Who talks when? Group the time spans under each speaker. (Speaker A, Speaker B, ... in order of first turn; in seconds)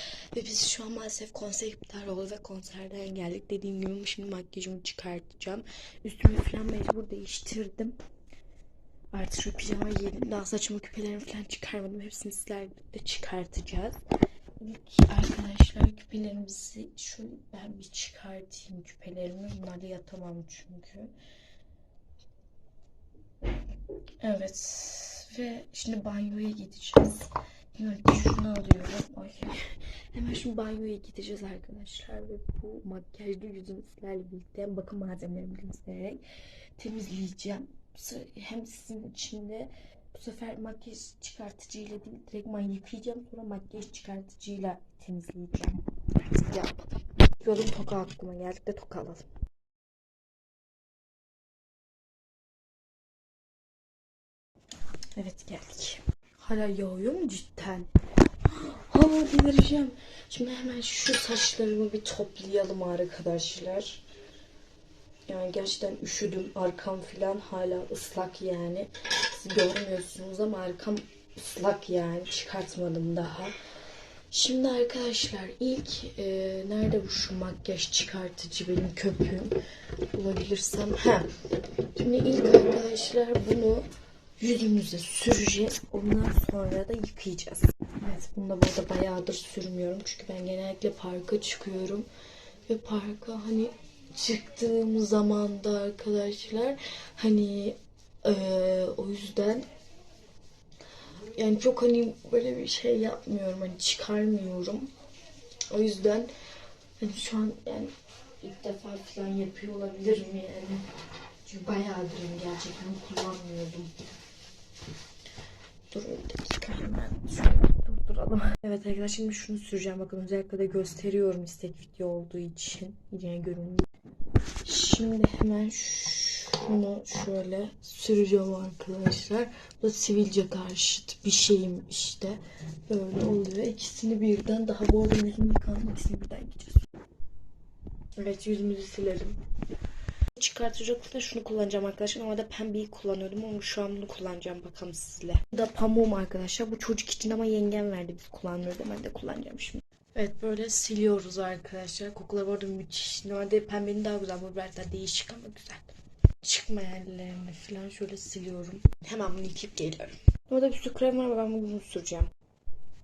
Speaker A: 0.3-8.0, 9.1-14.0, 14.6-21.1, 24.2-36.2, 36.8-45.8, 46.3-46.8, 47.4-49.3, 55.1-57.9, 58.5-64.0, 65.3-73.5, 74.3-79.5, 80.1-81.3, 81.9-83.9, 84.4-92.1, 92.7-99.7, 101.3-104.9, 105.7-106.3, 107.0-110.8, 111.5-113.9, 115.9-123.8, 124.7-136.8, 138.2-139.4, 140.3-162.3